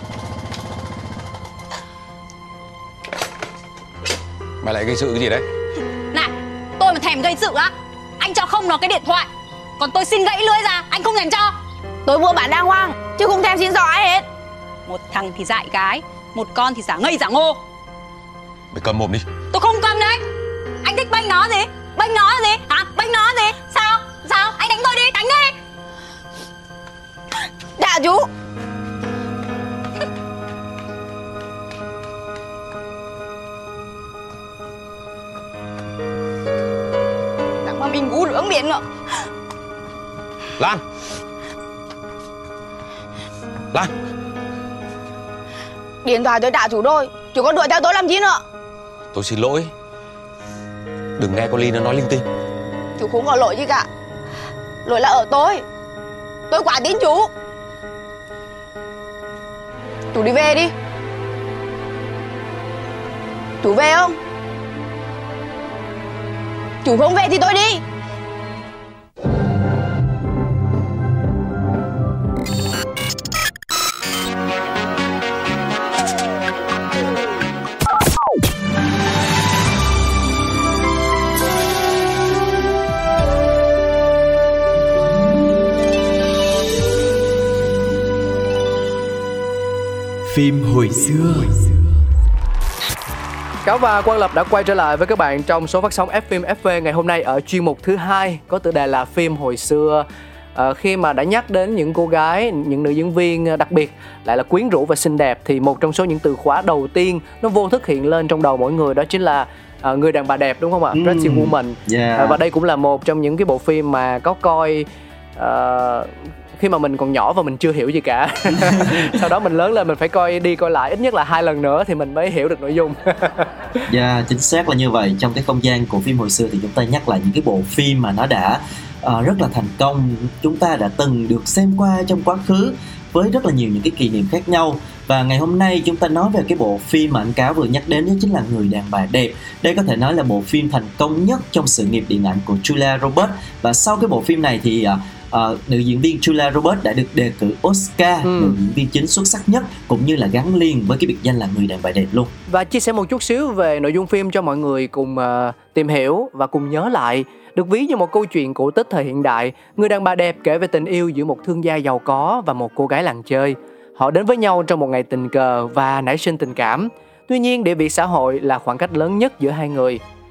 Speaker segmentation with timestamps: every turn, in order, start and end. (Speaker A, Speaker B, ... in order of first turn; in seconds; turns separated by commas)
Speaker A: 4.6-5.5, Speaker B: 6.1-9.3, Speaker B: 9.8-11.6, Speaker C: 12.1-14.3, Speaker B: 14.9-17.6, Speaker A: 18.7-19.2, Speaker B: 19.5-20.2, Speaker B: 20.8-25.6, Speaker C: 27.8-28.3, Speaker C: 37.6-38.8, Speaker C: 46.0-48.4, Speaker A: 49.1-49.7, Speaker A: 51.2-52.2, Speaker C: 53.0-53.9, Speaker C: 54.9-55.6, Speaker C: 56.5-57.3, Speaker C: 60.1-60.7, Speaker C: 63.6-64.2, Speaker C: 66.8-67.8, Speaker A: 90.3-91.6, Speaker D: 93.7-123.5, Speaker E: 110.9-112.4, Speaker E: 118.6-119.2, Speaker E: 123.9-152.3, Speaker D: 148.2-148.6, Speaker D: 152.5-170.0